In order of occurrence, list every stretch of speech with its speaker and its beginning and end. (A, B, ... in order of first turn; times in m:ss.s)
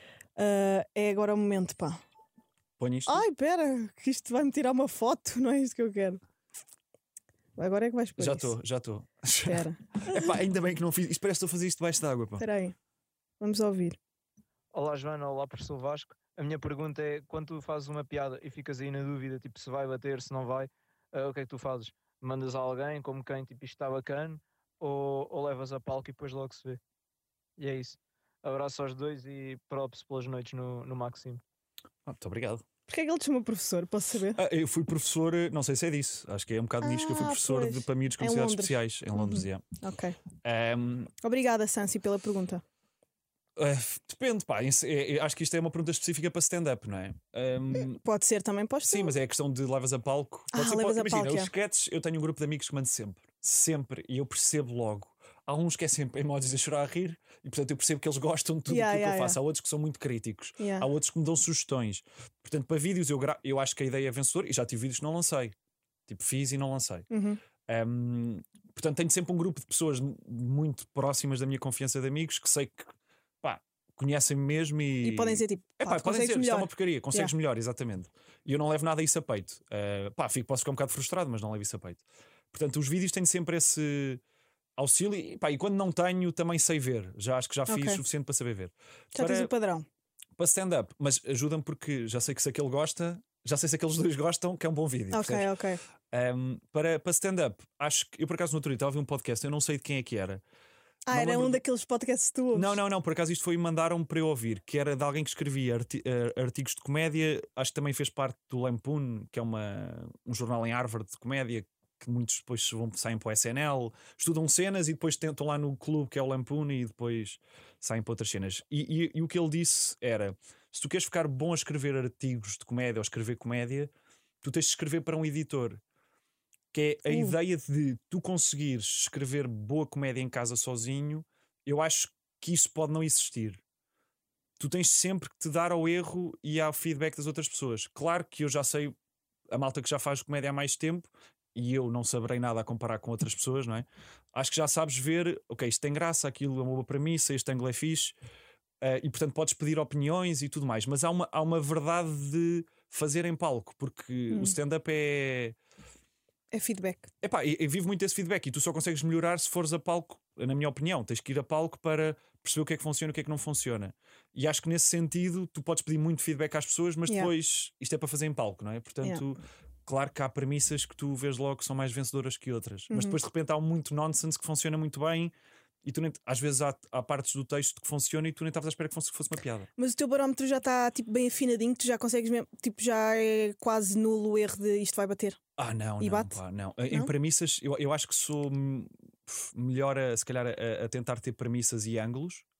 0:00.4-0:02.0 A
0:02.8-0:03.2 B
0:03.1-0:06.2 A
0:07.6-0:08.5 A
0:08.2-0:12.4 B
0:09.4-0:10.3 A
0:12.4-0:12.7 A
0:13.4-0:14.0 A
0:14.7-0:26.8 C
0:27.6-0:31.4 C
0:32.0-0:32.6 B
0:32.9-0:34.4 A
0:34.4-0:39.6 B
0:36.8-0:40.2 A
0:40.4-0:41.1 B
0:41.2-0:42.6 A
0:43.6-0:48.0 B
0:47.8-0:49.1 A
0:48.9-1:05.5 B
0:50.5-0:51.5 A
0:58.7-0:59.4 A
1:00.6-1:00.9 A
1:06.1-1:07.1 B
1:07.1-1:07.4 A
1:07.7-1:24.2 B
1:15.0-1:17.3 A
1:24.8-1:29.5 B
1:27.7-1:28.0 A
1:29.1-1:29.8 A
1:30.4-1:35.5 B
1:35.1-1:35.8 A
1:36.1-1:40.4 B
1:41.1-1:42.8 A
1:41.1-1:41.6 B
1:42.5-2:05.8 B
2:06.7-2:13.6 B
2:07.1-2:07.4 A
2:14.6-2:18.9 B
2:19.5-2:28.1 B
2:28.8-2:35.6 B
2:34.3-2:34.6 A
2:36.5-2:37.1 A
2:37.2-2:55.3 B
2:52.9-2:53.2 A
2:55.8-2:59.7 B
2:59.8-3:05.4 A
3:05.6-3:12.4 B
3:06.0-3:06.4 A